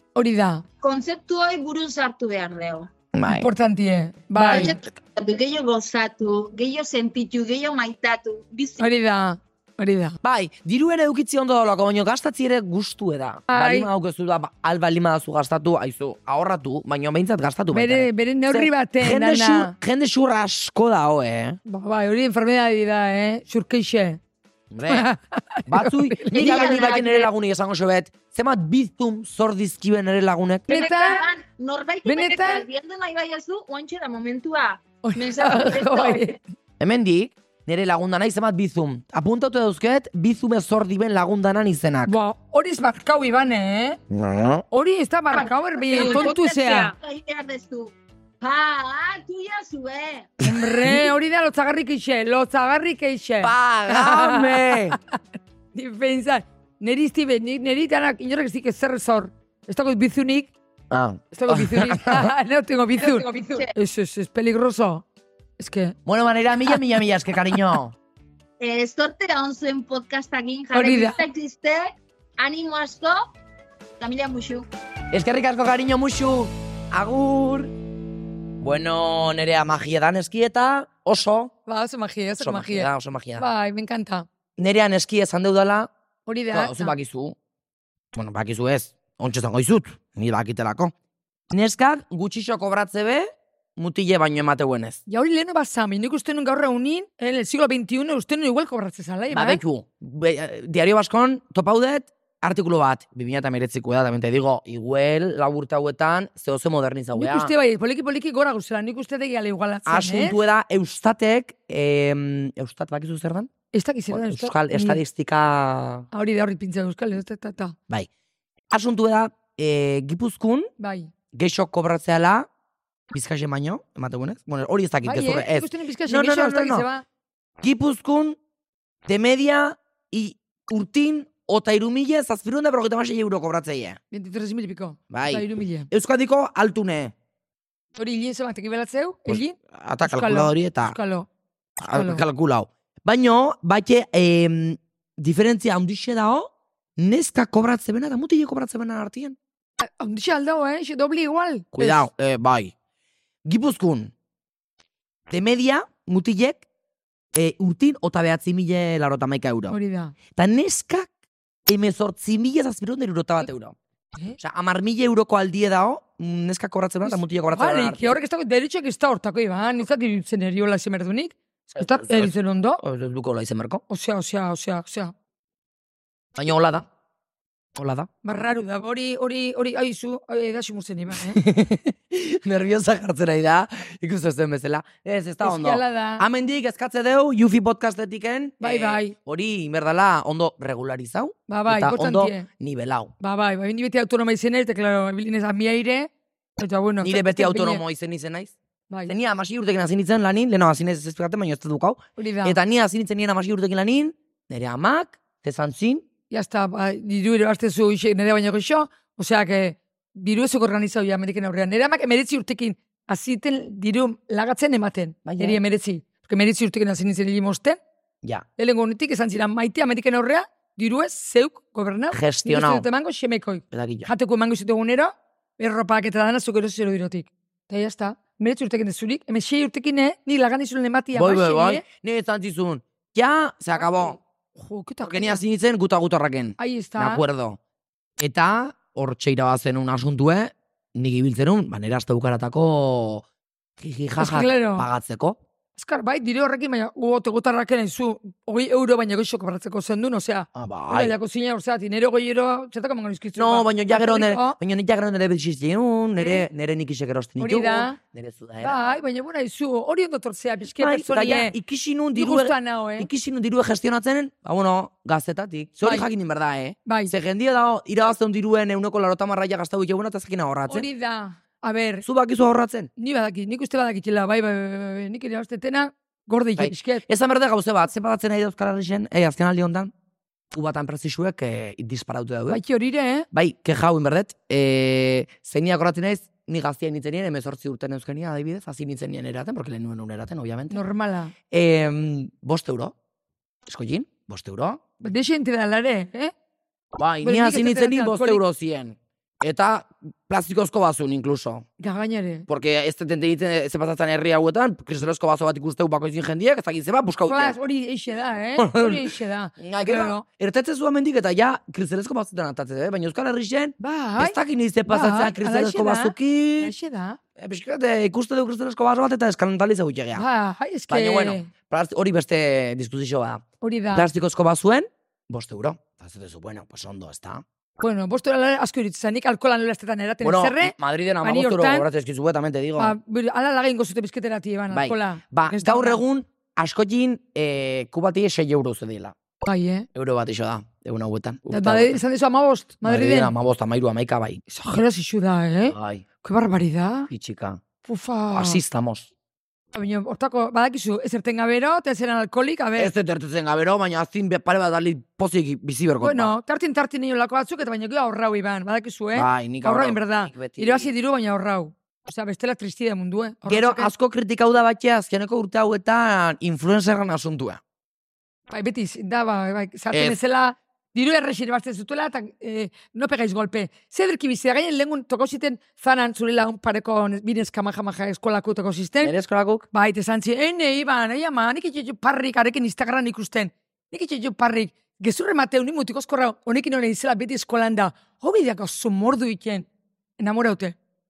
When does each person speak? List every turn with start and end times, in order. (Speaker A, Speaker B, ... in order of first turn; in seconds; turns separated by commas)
Speaker A: 0.1-0.6, Speaker B: 0.8-2.9, Speaker C: 3.1-3.5, Speaker A: 3.3-4.7, Speaker B: 4.4-8.9, Speaker A: 8.8-10.2, Speaker C: 10.2-21.6, Speaker A: 13.5-13.9, Speaker A: 17.7-19.7, Speaker A: 21.6-24.2, Speaker C: 24.7-25.1, Speaker A: 24.9-26.7, Speaker C: 25.7-30.6, Speaker B: 26.3-27.3, Speaker A: 30.7-31.3, Speaker B: 30.7-36.3, Speaker A: 32.0-32.6, Speaker A: 35.0-36.4, Speaker C: 36.8-42.1, Speaker A: 42.0-44.0, Speaker C: 44.1-44.6, Speaker A: 44.7-46.9, Speaker B: 45.3-50.3, Speaker C: 50.4-51.1, Speaker A: 50.4-55.2, Speaker C: 53.4-55.0, Speaker A: 55.7-60.5, Speaker C: 60.9-62.3, Speaker A: 61.3-65.0, Speaker B: 63.0-63.7, Speaker A: 65.6-66.0, Speaker C: 66.0-67.9, Speaker B: 68.6-73.3, Speaker A: 70.7-71.2, Speaker B: 74.0-74.7, Speaker C: 75.1-77.7, Speaker C: 78.6-81.5, Speaker A: 81.7-84.3, Speaker C: 82.4-83.4, Speaker C: 84.6-85.9, Speaker A: 86.3-86.9, Speaker C: 86.5-87.3, Speaker C: 88.1-90.9, Speaker C: 91.5-95.0, Speaker A: 95.1-99.6, Speaker C: 99.3-107.5, Speaker A: 107.1-110.4, Speaker C: 109.8-113.5, Speaker A: 113.7-115.0, Speaker C: 114.1-116.1, Speaker A: 116.1-117.8, Speaker C: 118.7-120.7, Speaker A: 120.8-121.1, Speaker C: 121.3-122.5, Speaker C: 123.1-126.9, Speaker A: 125.0-127.0, Speaker C: 127.6-128.4, Speaker C: 129.1-134.0, Speaker A: 134.1-135.9, Speaker C: 135.1-137.1, Speaker A: 137.9-141.3, Speaker C: 139.3-141.0, Speaker C: 141.8-149.4, Speaker A: 141.9-142.2, Speaker A: 149.8-152.1, Speaker C: 151.7-152.7, Speaker C: 153.4-154.1, Speaker C: 155.3-156.6, Speaker C: 157.3-159.8, Speaker A: 159.7-160.1, Speaker C: 160.3-161.1, Speaker C: 161.7-163.8, Speaker C: 164.4-168.2, Speaker A: 167.0-172.8, Speaker C: 171.7-173.8, Speaker A: 173.9-175.1, Speaker C: 176.3-176.9, Speaker C: 177.7-178.1, Speaker A: 178.2-181.4, Speaker C: 181.1-193.1, Speaker A: 185.4-186.2, Speaker A: 188.6-189.1, Speaker A: 191.5-192.5, Speaker A: 193.2-197.8, Speaker C: 197.0-198.6, Speaker C: 199.1-206.0, Speaker A: 202.2-202.6, Speaker A: 206.3-217.8, Speaker C: 215.2-215.6, Speaker A: 218.6-231.8, Speaker C: 222.1-222.9, Speaker C: 223.7-224.1, Speaker C: 231.1-234.2, Speaker A: 234.6-235.4, Speaker C: 235.0-237.6, Speaker A: 236.6-237.2, Speaker C: 238.2-243.2, Speaker C: 243.8-245.4, Speaker A: 244.2-244.9, Speaker A: 245.8-254.6, Speaker C: 250.5-251.1, Speaker C: 253.3-258.8, Speaker A: 256.2-256.4, Speaker A: 257.4-258.0, Speaker A: 258.6-261.6, Speaker C: 260.7-270.9, Speaker A: 262.1-263.1, Speaker A: 265.8-266.1, Speaker A: 266.9-267.1, Speaker A: 270.7-272.0, Speaker C: 272.0-272.9, Speaker A: 273.0-277.1, Speaker C: 276.6-279.9, Speaker C: 280.5-282.6, Speaker A: 282.5-283.3, Speaker C: 283.3-290.8, Speaker A: 290.7-291.3, Speaker C: 291.5-292.9, Speaker C: 293.6-295.0, Speaker A: 295.0-296.3, Speaker C: 296.9-301.7, Speaker A: 297.2-298.4, Speaker A: 301.8-302.5, Speaker C: 302.5-307.5, Speaker A: 307.2-310.2, Speaker C: 308.6-316.7, Speaker A: 313.8-317.2, Speaker C: 317.4-320.2, Speaker A: 320.1-321.5, Speaker C: 320.9-327.4, Speaker A: 323.6-324.1, Speaker A: 327.8-331.9, Speaker C: 330.2-332.9, Speaker A: 332.8-336.0, Speaker C: 334.7-339.1, Speaker A: 339.4-339.9, Speaker C: 339.9-342.0, Speaker A: 341.5-343.3, Speaker C: 342.8-344.4, Speaker A: 344.5-347.1, Speaker C: 345.6-346.0, Speaker C: 347.1-347.6, Speaker A: 347.8-348.6, Speaker C: 348.3-349.1, Speaker A: 349.7-352.9, Speaker C: 352.8-356.3, Speaker A: 356.0-363.9, Speaker C: 359.1-360.9, Speaker C: 363.4-367.6, Speaker A: 368.5-379.1, Speaker C: 369.9-370.2, Speaker C: 379.0-379.6, Speaker A: 379.7-389.6, Speaker A: 390.2-390.8